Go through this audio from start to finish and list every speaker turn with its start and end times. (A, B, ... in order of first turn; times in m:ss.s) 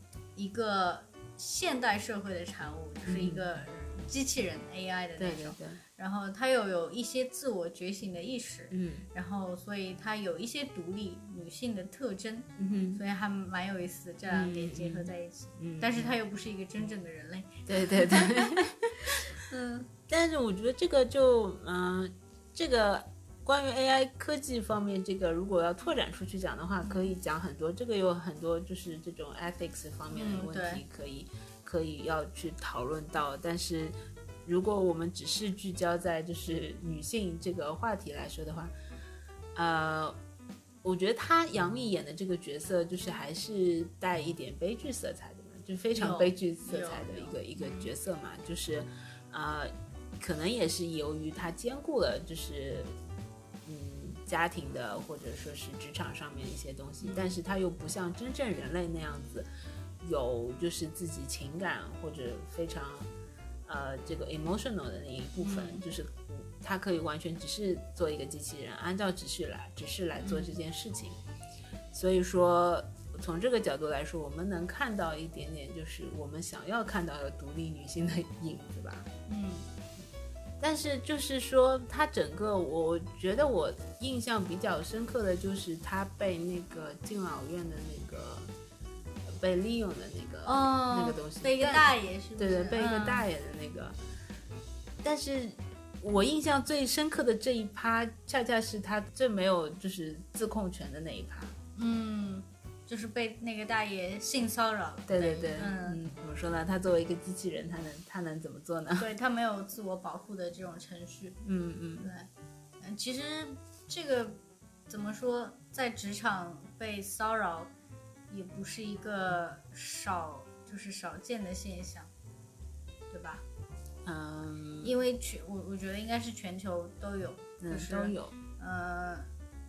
0:00.4-0:19.9 A
0:03.1-0:03.4 B
0:05.2-0:05.8 B
0:08.7-0:09.1 B
0:12.6-0:13.0 B
0:14.3-0:16.1 B
0:17.7-0:19.2 B
0:20.1-0:38.7 B
0:26.8-0:27.1 A
0:30.1-0:30.8 A
0:39.6-0:40.2 B
0:40.8-0:52.9 B
0:45.9-0:47.9 A
0:53.6-0:59.5 B
0:57.0-0:57.4 A
1:00.0-1:03.1 B
1:03.6-1:11.2 B
1:05.4-1:05.8 A
1:10.2-1:10.5 A
1:11.9-1:19.1 B
1:19.3-1:19.6 A
1:20.6-1:28.5 B
1:29.2-1:34.0 B
1:30.4-1:33.3 A
1:35.0-1:41.6 B
1:41.8-1:46.0 A
1:45.1-1:49.1 B
1:49.0-1:51.4 A
1:51.4-1:52.1 B
1:52.0-1:52.3 A
1:52.8-1:57.7 A
1:58.3-2:02.1 A
2:03.1-2:03.4 A
2:04.0-2:04.9 B
2:04.8-2:09.3 A
2:07.6-2:08.4 B